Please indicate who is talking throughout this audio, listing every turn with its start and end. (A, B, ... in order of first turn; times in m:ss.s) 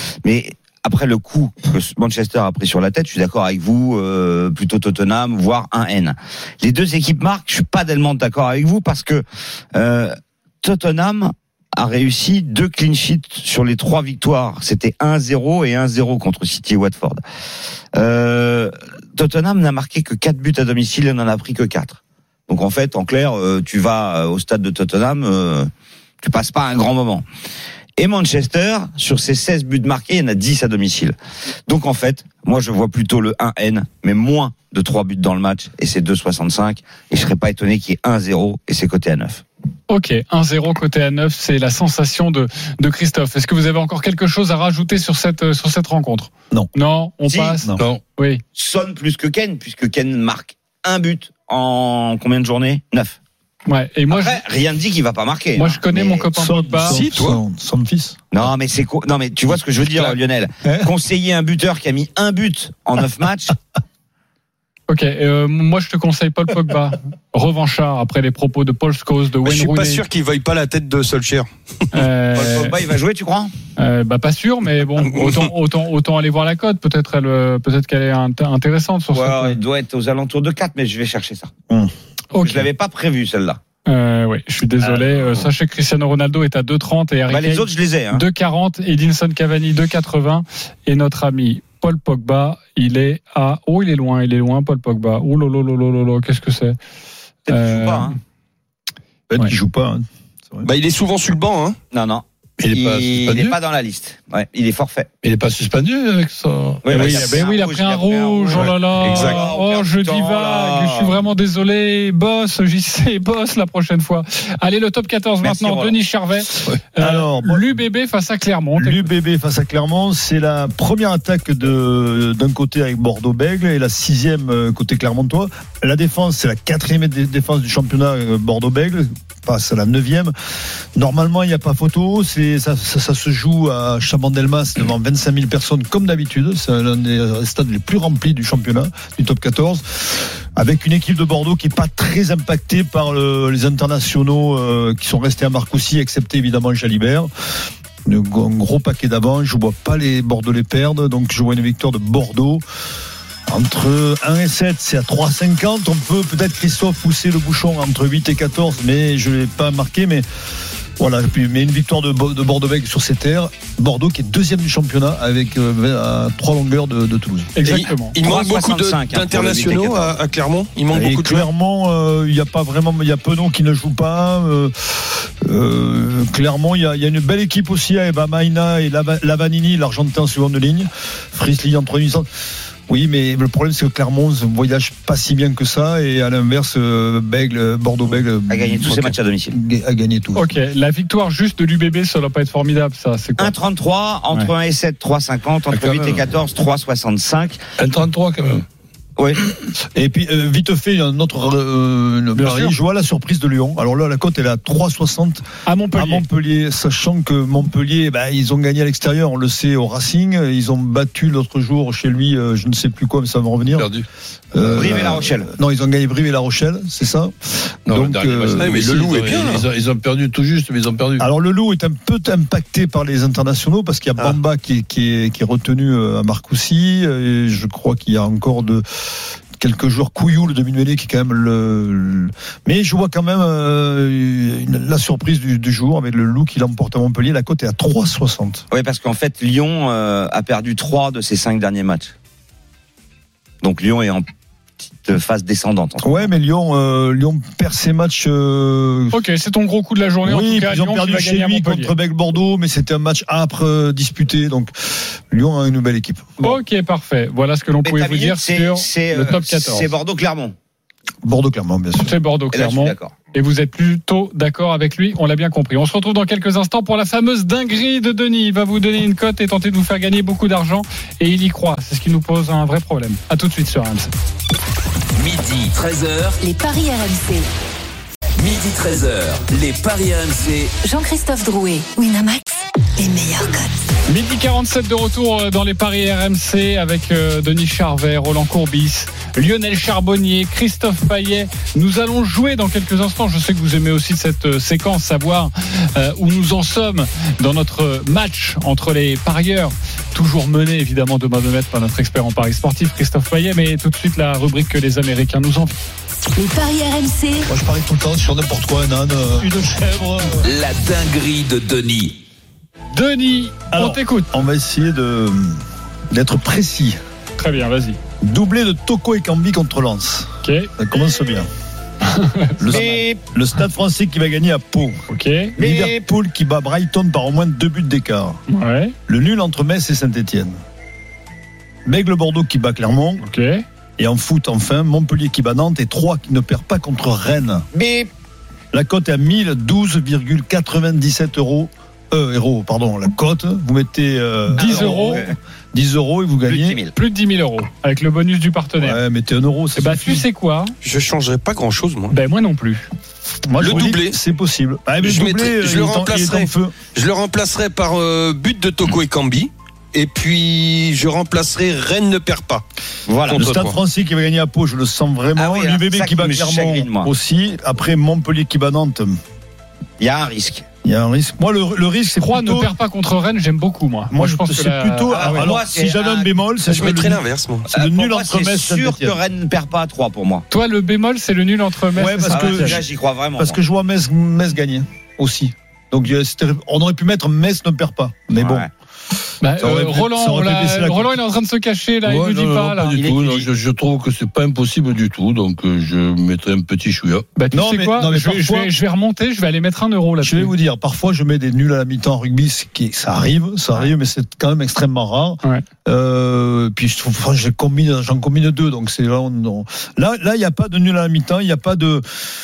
0:00.2-0:09.2 A
0:09.7-0:17.2 A
0:17.9-0:25.7 A
0:26.2-0:27.2 A
0:28.0-0:31.2 A
0:31.7-0:39.4 A
0:39.9-0:48.4 B
0:47.3-0:47.6 A
0:47.8-0:48.0 C
0:48.5-0:53.2 A
0:53.7-0:54.4 B
0:54.1-0:56.3 A
0:55.6-0:57.0 B
0:56.4-0:58.2 D
0:56.9-0:57.4 E
0:58.3-1:03.6 A
1:00.6-1:00.9 D
1:04.9-1:10.0 B
1:09.4-1:11.5 E
1:11.9-1:12.8 B
1:12.3-1:13.5 A
1:13.8-1:19.6 B
1:15.0-1:15.5 E
1:19.1-1:21.5 A
1:22.3-1:22.7 B
1:22.4-1:23.6 A
1:23.8-1:36.8 B
1:27.3-1:28.2 A
1:37.5-1:38.2 A
1:37.5-1:38.1 B
1:39.3-1:40.7 D
1:40.6-1:41.8 E
1:41.9-1:45.1 A
1:42.6-1:43.6 C
1:45.2-1:47.4 C
1:46.8-1:51.2 A
1:46.9-1:59.1 B
1:49.0-1:49.4 E
1:55.4-1:56.0 A
1:57.0-1:57.7 D
1:58.8-2:10.3 D
2:10.9-2:27.3 D
2:28.0-2:32.6 D
2:33.5-2:40.2 D
2:41.0-2:47.5 D
2:47.6-2:48.2 B
2:47.6-2:51.4 E
2:48.2-2:50.1 A
2:50.9-3:02.3 D
3:02.9-3:10.5 D
3:08.5-3:09.5 A
3:10.4-3:13.5 B
3:13.4-3:17.6 A
3:15.7-3:16.2 C
3:17.8-3:18.6 C
3:19.9-3:33.9 D
3:22.4-3:22.7 B
3:25.6-3:26.2 B
3:33.8-3:34.0 C
3:34.5-3:38.8 D
3:34.7-3:35.5 A
3:37.9-3:41.2 C
3:38.6-3:39.6 E
3:41.2-3:48.8 D
3:49.6-3:58.6 D
3:58.7-4:02.1 A
4:03.6-4:04.2 A
4:05.0-4:06.3 A
4:06.0-4:09.2 D
4:09.1-4:11.9 B
4:10.2-4:16.6 D
4:16.4-4:19.9 B
4:17.8-4:20.5 A
4:21.2-4:22.1 D
4:22.0-4:34.1 B
4:22.5-4:23.1 A
4:35.1-4:36.4 F
4:36.4-4:37.5 G
4:38.4-4:40.7 F
4:40.8-4:43.8 G
4:44.1-5:05.8 B
5:06.3-5:07.5 G
5:07.5-5:10.4 D
5:10.4-5:12.2 F
5:12.9-5:14.3 B
5:13.7-5:17.0 D
5:17.4-5:18.0 B
5:18.2-5:21.5 D
5:20.4-5:20.7 B
5:22.0-5:22.9 B
5:22.6-5:25.0 D
5:22.7-5:23.2 A
5:25.1-5:25.5 B
5:25.6-5:28.4 D
5:25.6-5:26.0 A
5:28.5-5:29.0 B
5:29.1-5:30.6 D
5:31.8-5:33.2 D
5:33.2-5:33.6 B
5:34.0-5:37.7 D
5:37.7-5:38.1 A
5:38.7-5:46.8 D
5:44.5-5:45.2 B
5:44.6-5:45.4 A
5:46.4-5:46.9 A
5:46.9-5:49.0 B
5:48.8-5:50.2 D
5:49.8-5:50.7 B
5:50.8-5:52.2 E
5:52.1-5:52.9 B
5:53.5-5:56.7 D
5:53.6-5:54.2 E
5:55.0-6:02.6 E
6:03.1-6:03.5 A
6:03.3-6:03.8 E
6:03.3-6:09.2 D
6:05.4-6:07.1 A
6:10.0-6:10.6 A
6:10.8-6:12.7 D
6:12.2-6:15.5 B
6:14.1-6:19.2 D
6:15.1-6:16.3 A
6:16.6-6:17.6 E
6:17.7-6:20.4 A
6:20.5-6:22.8 B
6:21.9-6:22.8 D
6:22.3-6:23.6 A
6:23.4-6:28.7 D
6:28.3-6:28.7 A
6:29.4-6:33.1 B
6:29.6-6:31.1 D
6:32.0-6:37.3 C
6:37.4-6:40.5 B
6:37.5-6:38.7 D
6:40.2-6:52.0 D